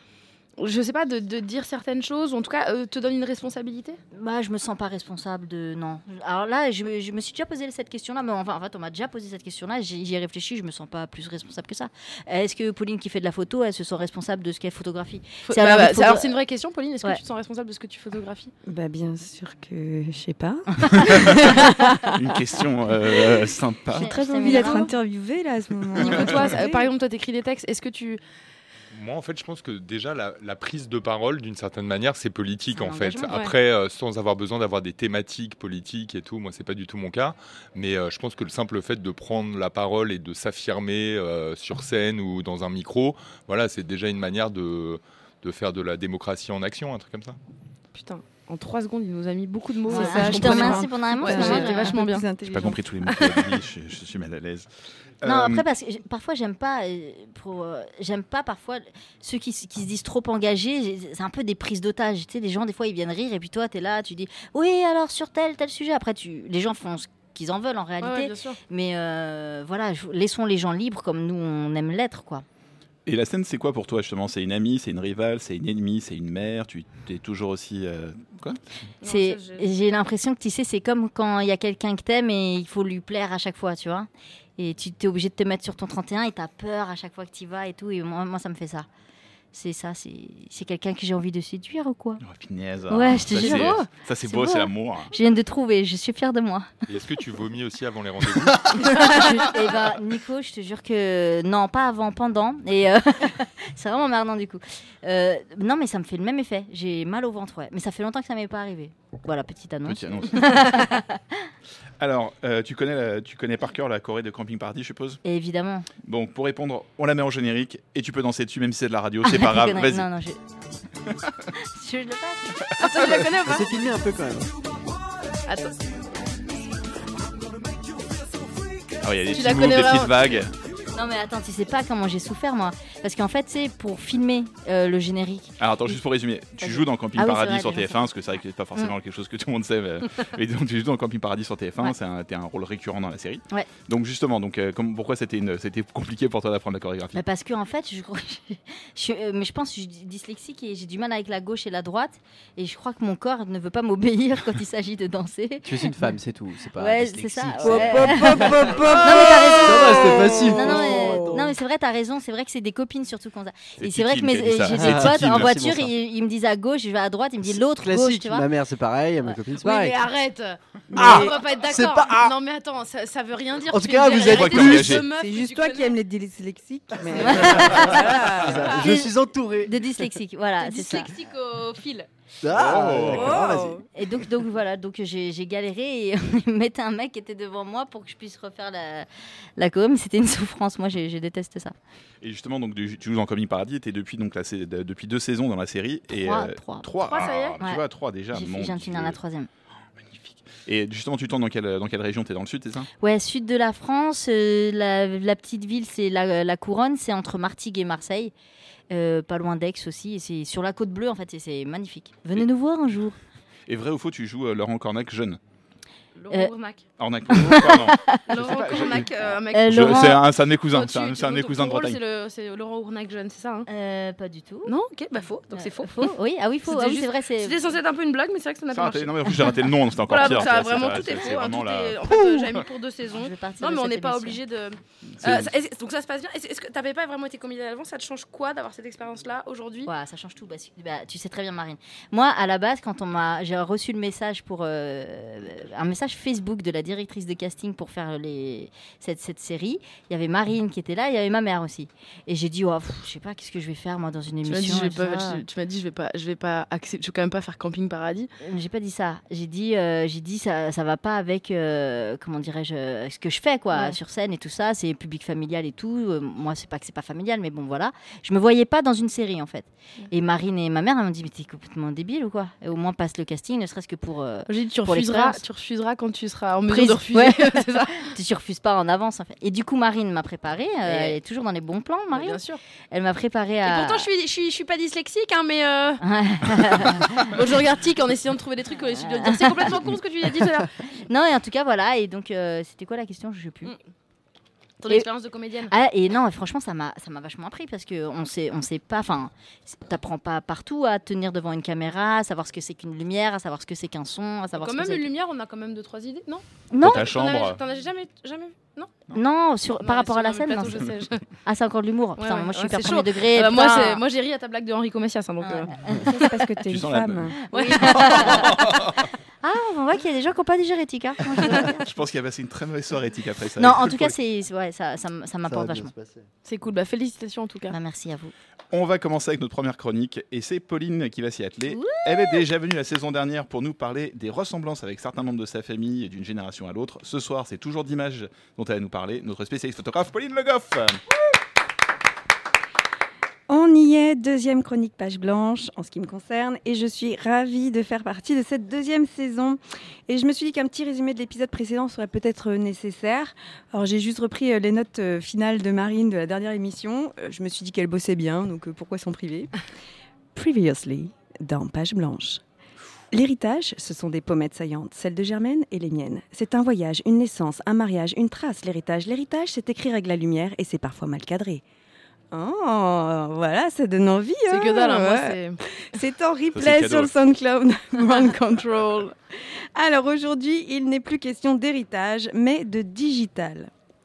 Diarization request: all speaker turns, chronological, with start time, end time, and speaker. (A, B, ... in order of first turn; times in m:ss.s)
0:00.6-0:04.0 A
0:04.1-0:16.3 B
0:15.5-0:18.5 A
0:18.6-0:22.2 C
0:21.0-0:24.1 D
0:23.2-0:26.9 C
0:23.9-0:24.9 B
0:24.4-0:24.9 A
0:26.0-0:28.2 A
0:28.9-0:47.4 E
0:32.7-0:33.4 B
0:33.3-0:33.5 A
0:47.9-0:52.3 A
0:49.9-0:52.8 C
0:49.9-0:52.0 B
0:52.5-0:54.7 D
0:53.1-0:53.4 A
0:55.2-0:55.6 D
0:55.2-1:12.4 B
1:08.0-1:08.6 A
1:13.0-1:18.6 D
1:19.0-1:19.6 A
1:19.0-1:28.8 B
1:29.5-1:32.2 B
1:32.2-1:35.1 D
1:32.9-1:36.7 B
1:33.3-1:33.8 A
1:36.9-1:39.2 E
1:38.9-1:51.4 B
1:49.8-1:50.6 D
1:52.0-1:55.2 D
1:55.2-1:55.9 B
1:56.0-2:00.1 D
1:59.2-2:00.4 B
2:01.6-2:02.7 B
2:02.8-2:03.8 A
2:03.4-2:04.5 F
2:05.4-2:05.8 A
2:09.0-2:10.5 D
2:09.3-2:10.4 A
2:10.9-2:15.6 B
2:15.6-2:27.2 D
2:16.6-2:18.0 B
2:27.1-2:36.0 B
2:35.6-2:41.5 F
2:36.7-2:48.4 B
2:37.6-2:41.4 C
2:43.8-2:45.5 D
2:44.7-2:45.9 F
2:47.5-2:50.0 F
2:49.6-2:56.0 A
2:50.9-2:52.3 F
2:51.0-2:51.3 D
2:53.7-2:55.1 F
2:54.2-2:55.1 D
2:55.1-2:58.8 C
2:57.1-2:59.7 F
2:57.2-2:57.7 A
2:57.2-2:58.1 B
2:58.7-3:01.1 B
3:00.6-3:02.1 A
3:02.4-3:03.8 F
3:02.5-3:03.5 D
3:03.1-3:03.8 C
3:03.9-3:11.7 B
3:12.2-3:19.2 D
3:16.1-3:16.9 B
3:17.0-3:17.6 A
3:17.6-3:19.5 B
3:20.0-3:22.9 D
3:23.0-3:28.3 B
3:28.9-3:33.2 B
3:33.7-3:35.4 D
3:36.2-3:36.8 A
3:37.0-3:42.0 D
3:37.3-3:38.3 B
3:38.3-3:40.1 A
3:39.5-3:40.2 B
3:40.7-3:43.7 A
3:43.7-3:44.7 B
3:44.6-3:46.1 A
3:45.5-3:47.6 B
3:46.6-3:59.9 A
3:48.7-3:52.6 D
3:53.1-3:54.4 B
3:55.2-3:55.5 D
3:59.8-4:15.4 B
4:14.4-4:18.3 A
4:18.4-4:35.4 B
4:23.7-4:24.0 A
4:34.5-4:38.1 A
4:36.7-4:42.4 B
4:40.8-4:41.2 A
4:42.1-4:42.6 A
4:42.9-4:44.1 B
4:43.6-4:50.7 A
4:46.0-4:47.3 B
4:49.0-4:49.8 B
4:51.1-4:53.7 B
4:54.8-4:55.7 A
4:55.7-5:05.1 B
5:04.6-5:09.1 A
5:06.7-5:07.1 B
5:06.8-5:07.6 D
5:09.1-5:10.9 B
5:09.8-5:11.2 A
5:11.4-5:14.0 B
5:12.2-5:15.8 A
5:15.4-5:16.2 B
5:16.0-5:17.3 C
5:16.7-5:19.0 D
5:17.4-5:18.6 B
5:17.5-5:18.6 A
5:19.4-5:21.8 B
5:21.8-5:24.2 D
5:23.6-5:25.9 B
5:25.5-5:26.3 F
5:26.4-5:27.7 A
5:27.7-5:28.3 B
5:28.7-5:41.0 D
5:31.7-5:32.4 B
5:43.5-5:59.5 C
6:00.3-6:02.4 C
6:03.1-6:11.6 C
6:12.3-6:19.2 C
6:14.5-6:15.6 A
6:16.5-6:17.1 D
6:19.7-6:23.7 C